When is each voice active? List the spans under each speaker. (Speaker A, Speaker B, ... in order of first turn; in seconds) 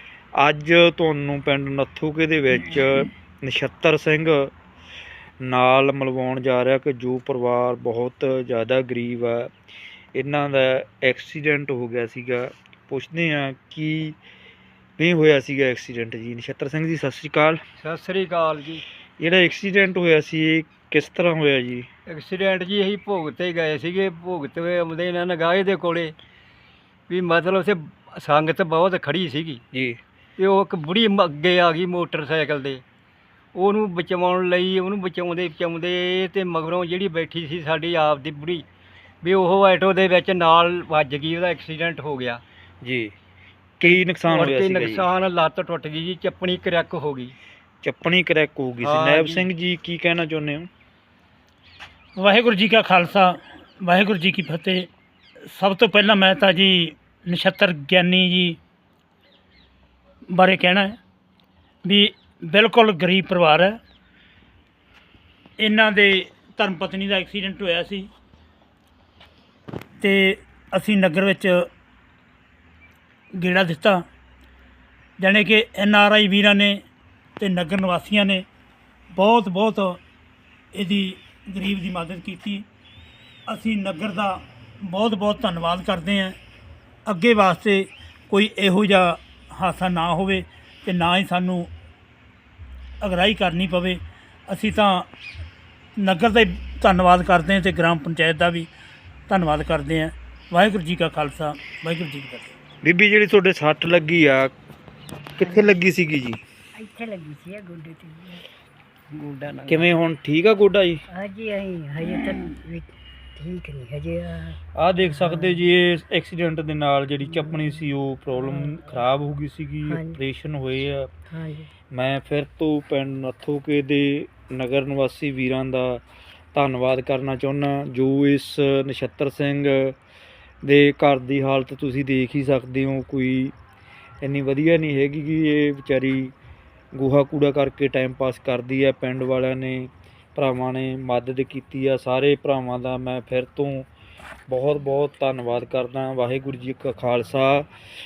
Speaker A: 0.4-4.5, 5.4-9.5, 10.2-14.2, 15.0-17.6, 19.2-21.9, 29.7-30.0, 42.8-43.1, 43.8-45.1, 47.8-50.7, 102.8-104.5, 105.4-106.4, 109.7-111.0, 114.8-121.1, 121.9-126.0, 126.5-130.0, 130.6-133.6, 134.2-136.3, 136.9-143.9, 144.5-147.7
Speaker B: 17.8-18.8, 22.1-26.1, 27.1-29.6, 30.4-32.8, 33.5-38.7, 39.2-42.4, 44.3-47.3, 48.8-49.5, 109.1-109.7
Speaker C: 52.2-54.9, 55.5-58.6, 60.3-61.0, 61.9-63.8, 65.6-68.1, 70.0-71.7, 73.4-74.0, 75.2-76.8, 77.4-78.4, 79.2-80.0, 80.7-82.7, 83.5-86.4, 87.1-91.7, 93.0-95.1, 96.0-98.7, 99.3-102.5
Speaker D: 105.4-105.8, 106.8-108.5, 111.1-115.7, 117.3-117.7, 118.5-118.8, 119.9-120.2, 121.3-121.7